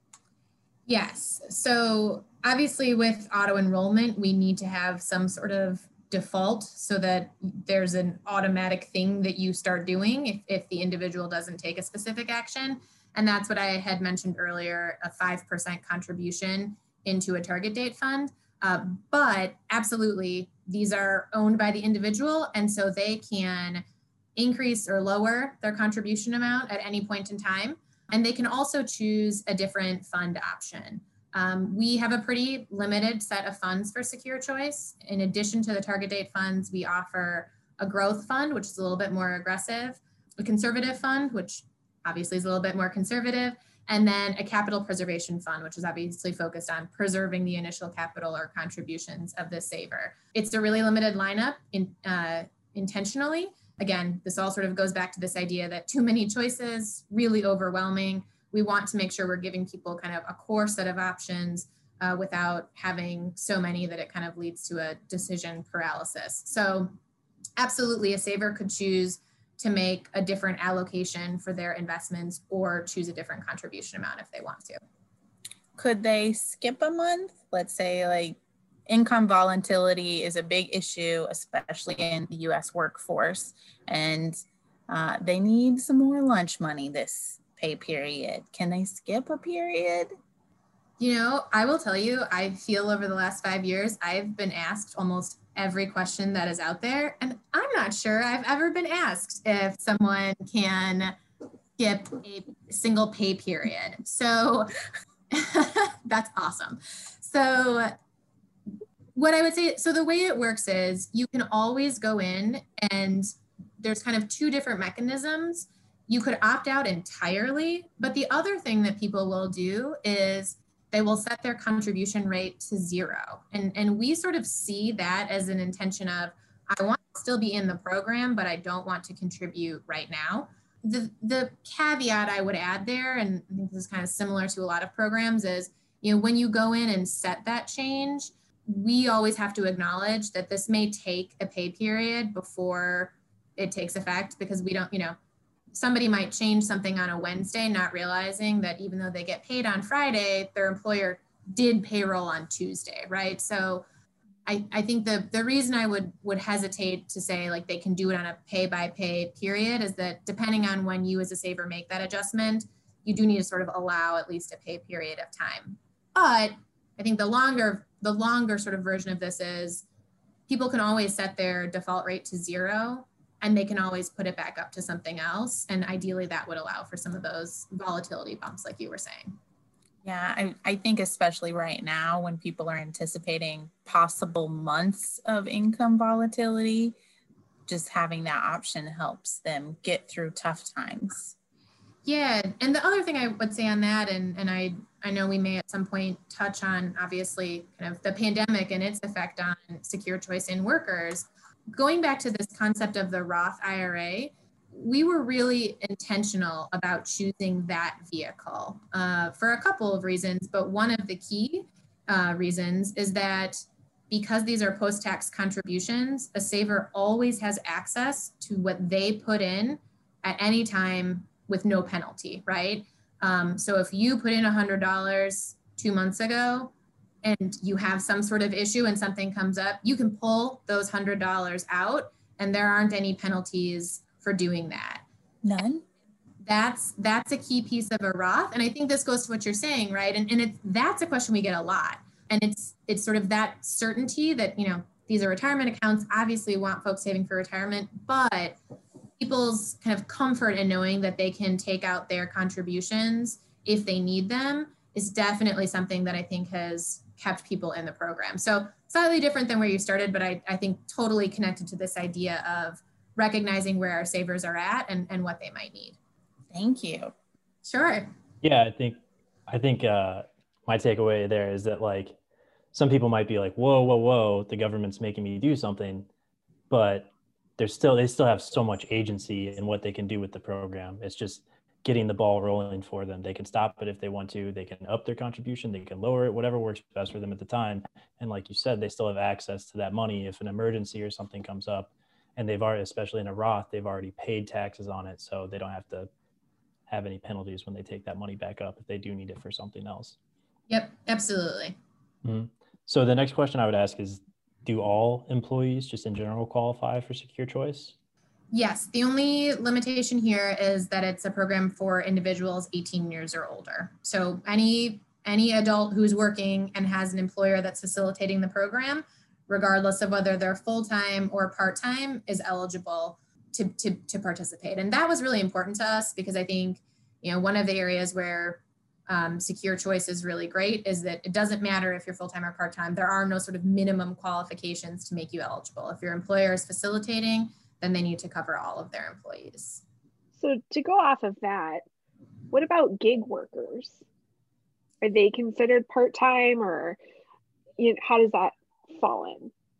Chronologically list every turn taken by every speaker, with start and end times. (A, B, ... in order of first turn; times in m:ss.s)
0:00.9-0:23.8 A
0:24.4-1:06.9 A
1:07.6-1:14.8 A
1:15.8-1:30.1 B
1:31.0-1:41.2 A
1:41.8-1:44.7 A
1:45.3-1:47.9 A
1:49.1-1:53.3 A
1:53.8-2:25.2 A
2:25.7-2:33.8 A
2:34.4-2:49.8 A
2:50.5-2:59.4 A
3:00.0-3:07.0 B
3:07.7-3:11.3 B
3:12.0-3:46.7 A
3:47.2-3:55.0 A
3:55.4-3:55.8 B
3:56.4-4:08.6 A
4:09.2-4:26.0 A
4:26.5-4:27.1 B
4:27.6-4:28.1 A
4:28.4-4:32.2 C
4:32.7-4:36.1 C
4:36.7-4:56.1 C
4:56.9-5:00.2 C
5:00.7-5:01.8 A
5:02.2-5:07.9 C
5:08.5-5:39.8 A
5:40.4-5:41.8 D
5:42.5-5:44.0 D
5:45.0-5:47.0 D
5:47.8-5:49.5 D